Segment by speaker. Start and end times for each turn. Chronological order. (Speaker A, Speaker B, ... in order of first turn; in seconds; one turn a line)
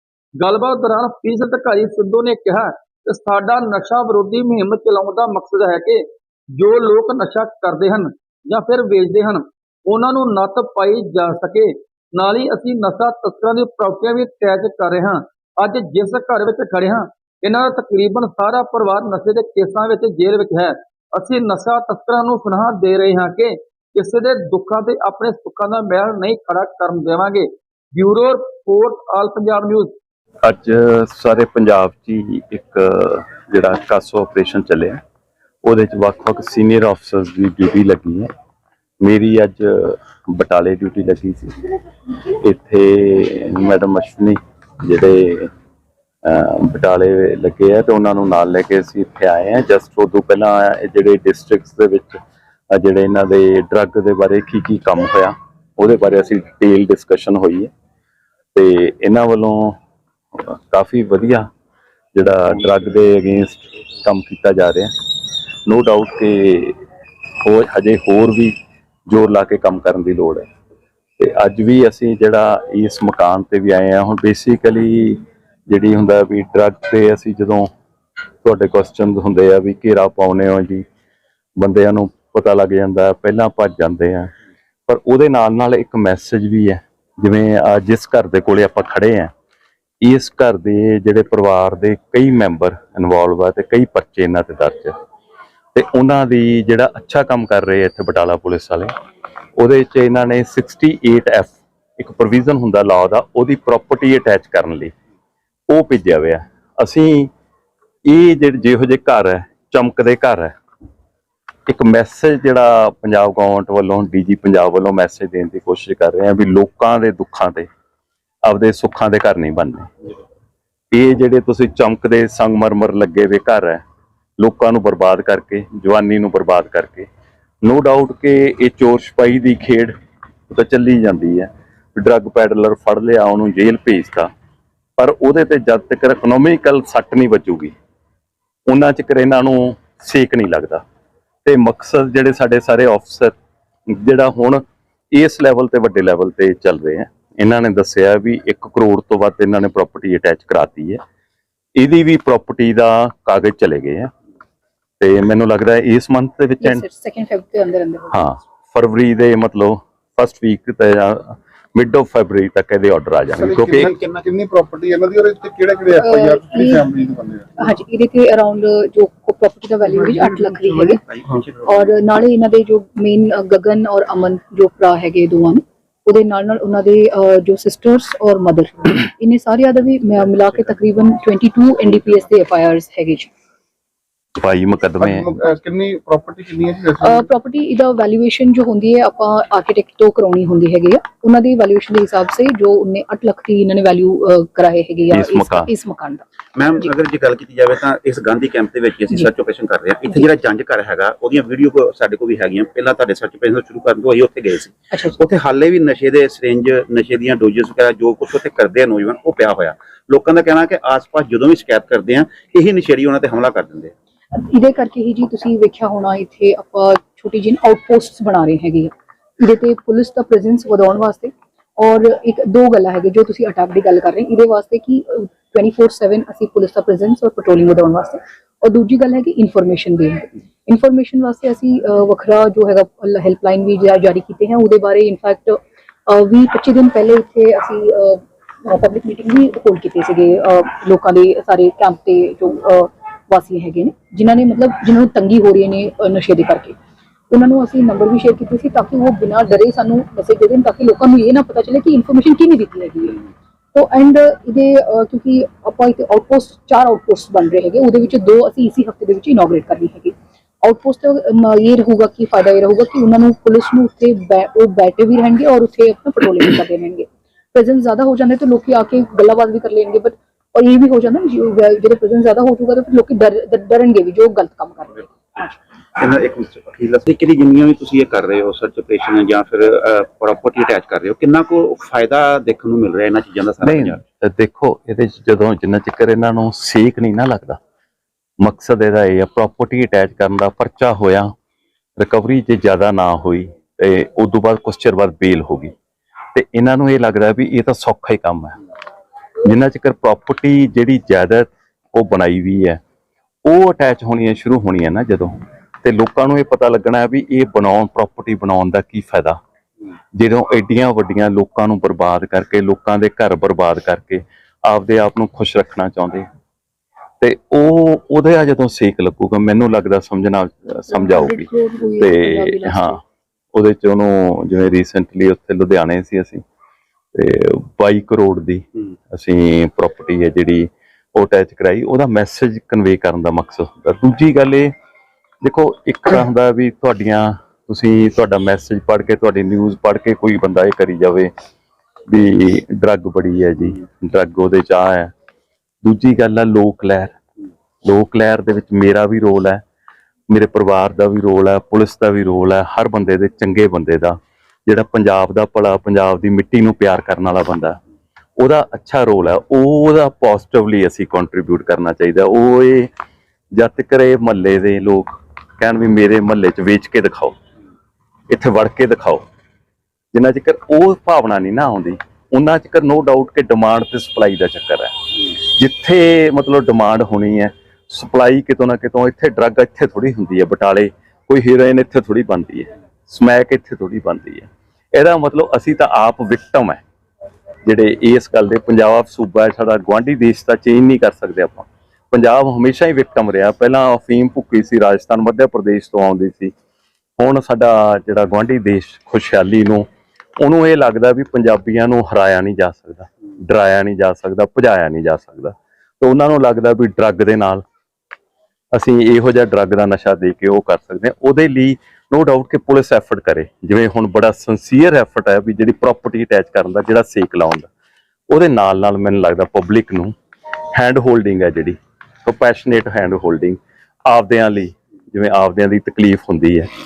Speaker A: 0.4-6.0
Speaker A: 6.6-29.9
Speaker B: 30.4-35.0
Speaker B: 35.6-38.3
Speaker B: 39.0-41.6
Speaker B: 42.3-45.5
Speaker B: 46.2-52.2
Speaker B: 52.7-57.7
Speaker B: 58.5-59.8
Speaker B: 60.3-61.5
Speaker B: 62.1-64.9
Speaker B: 65.7-66.8
Speaker B: 67.4-68.5
Speaker B: 69.1-70.5
Speaker B: 71.2-77.7
Speaker B: 78.4-80.8
Speaker B: 81.6-84.3
Speaker B: 84.9-89.3
Speaker B: 90.0-95.0
Speaker B: 95.8-98.9
Speaker B: 99.6-104.9
Speaker B: 105.7-107.3
Speaker B: 108.1-110.5
Speaker B: 111.7-117.7
Speaker B: 118.5-119.9
Speaker B: 120.9-123.8
Speaker B: 124.4-127.1
Speaker B: 127.6-129.9
Speaker B: 130.5-134.3
Speaker B: 135.0-137.7
Speaker B: 138.7-140.8
Speaker B: 141.4-143.3
Speaker B: 143.9-151.0
Speaker B: 151.8-154.1
Speaker B: 155.0-156.9
Speaker C: 156.6-158.2
Speaker B: 158.1-163.9
Speaker D: 163.4-167.6
Speaker E: 163.8-164.2
Speaker C: 166.0-166.8
Speaker C: 167.6-171.0
Speaker D: 170.0-170.4
Speaker E: 171.1-171.9
Speaker C: 171.7-183.3
Speaker B: 184.4-185.3
Speaker D: 185.0-187.3
Speaker C: 187.0-196.3
Speaker B: 195.1-195.7
Speaker E: 196.6-213.9
Speaker C: 214.3-246.8
Speaker C: 247.3-275.5
Speaker E: 276.0-284.0
Speaker B: 283.6-287.6
Speaker B: 288.4-291.3
Speaker B: 292.0-295.7
Speaker B: 296.3-298.6
Speaker B: 299.4-302.8
Speaker B: 303.4-309.4
Speaker B: 310.1-316.3
Speaker B: 317.2-323.0
Speaker C: 320.9-323.0
Speaker B: 323.6-326.4
Speaker B: 327.1-334.7
Speaker B: 335.4-341.3
Speaker B: 342.1-345.1
Speaker B: 345.8-347.1
Speaker B: 347.8-349.6
Speaker B: 350.3-357.8
Speaker B: 358.4-362.9
Speaker B: 363.5-367.4
Speaker B: 368.3-369.2
Speaker B: 370.1-386.8
Speaker B: 387.7-396.5
Speaker B: 397.2-399.9
Speaker B: 400.4-407.6
Speaker B: 408.7-417.7
Speaker B: 418.3-420.1
Speaker B: 420.8-426.7